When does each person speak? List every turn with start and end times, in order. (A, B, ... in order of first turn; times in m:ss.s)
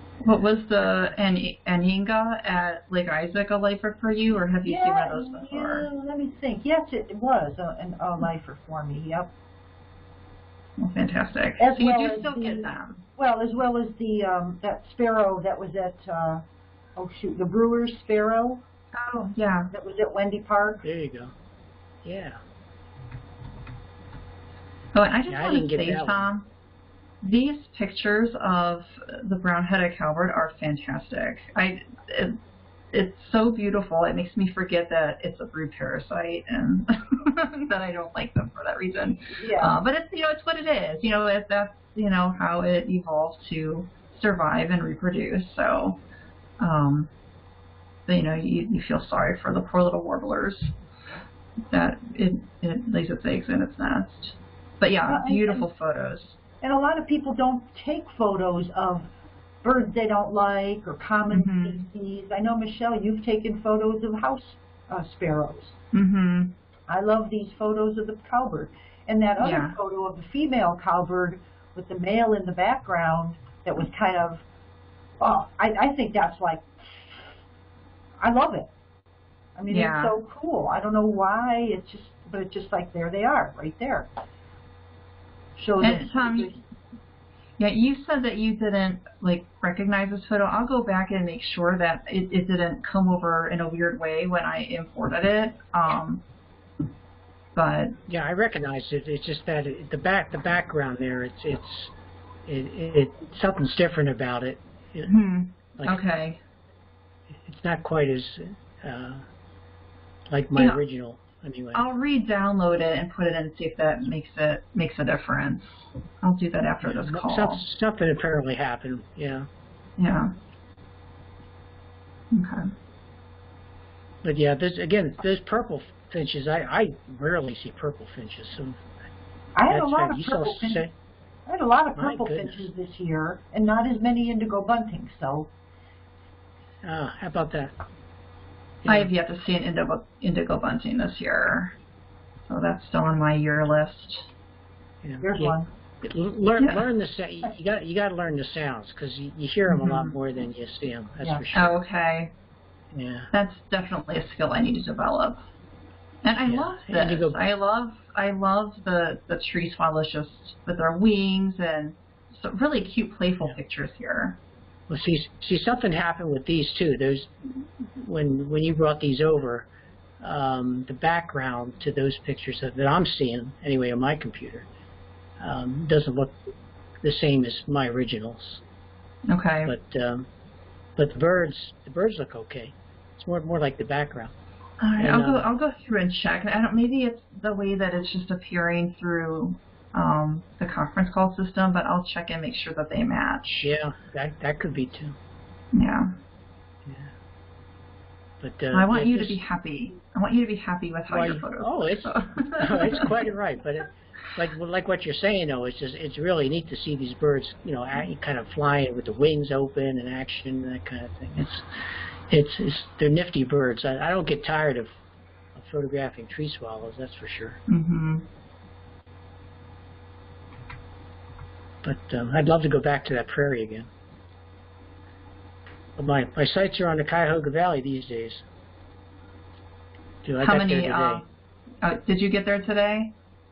0:00.2-0:05.9 A
0:04.7-0:09.3 B
0:10.8-0:13.0 A
0:11.6-0:16.4 B
0:17.0-0:18.6 B
0:19.0-0:19.7 A
0:19.7-0:20.8 B
0:20.8-0:21.3 C
0:22.0-0:22.4 C
0:24.9-0:26.5 A
0:25.3-0:26.3 C
0:27.2-0:32.4 A
0:32.9-0:46.0 A
0:39.3-0:39.8 B
0:46.6-0:47.1 A
0:48.1-0:50.7 A
0:51.7-0:56.4 A
0:55.1-0:55.7 B
0:56.6-0:59.1 B
0:59.6-1:05.8 B
1:01.3-1:01.9 A
1:05.9-1:06.5 A
1:06.9-1:14.4 B
1:09.4-1:09.8 A
1:15.2-1:17.2 B
1:18.2-1:18.7 B
1:19.6-1:24.1 B
1:19.7-1:20.2 A
1:25.6-1:26.6 B
1:25.8-1:26.6 A
1:27.6-1:36.2 A
1:37.6-1:38.0 A
1:38.1-1:41.9 C
1:42.5-1:45.1 C
1:45.1-1:46.4 A
1:47.4-1:49.2 C
1:50.3-1:51.8 C
1:51.7-1:57.6 A
1:56.8-1:59.5 C
2:00.0-2:00.3 A
2:02.3-2:02.7 A
2:04.2-2:08.8 C
2:09.6-2:10.8 B
2:09.7-2:10.9 C
2:11.5-2:15.5 B
2:12.0-2:12.7 C
2:16.8-2:17.7 C
2:18.8-2:19.1 C
2:18.9-2:21.8 A
2:22.5-2:24.3 A
2:25.0-2:31.8 C
2:25.2-2:25.7 B
2:29.7-2:30.2 A
2:31.5-2:32.3 A
2:32.9-2:33.3 C
2:33.3-2:35.4 A
2:36.2-2:44.4 A
2:36.5-2:37.4 C
2:44.9-2:49.7 C
2:50.2-2:54.7 C
2:55.4-2:56.4 C
2:57.0-2:58.6 C
2:59.3-2:59.7 A
2:59.7-3:00.3 C
3:01.0-3:04.3 C
3:04.8-3:13.7 A
3:05.0-3:05.5 C
3:13.6-3:15.2 C
3:15.7-3:16.1 A
3:16.9-3:17.1 C
3:18.4-3:19.4 C
3:18.7-3:23.3 A
3:21.1-3:31.7 C
3:32.3-3:34.9 C
3:35.6-3:37.6 C
3:37.7-3:38.3 A
3:41.8-3:43.9 C
3:46.0-3:48.5 C
3:50.2-3:51.2 C
3:50.4-3:51.2 A
3:51.8-3:53.1 A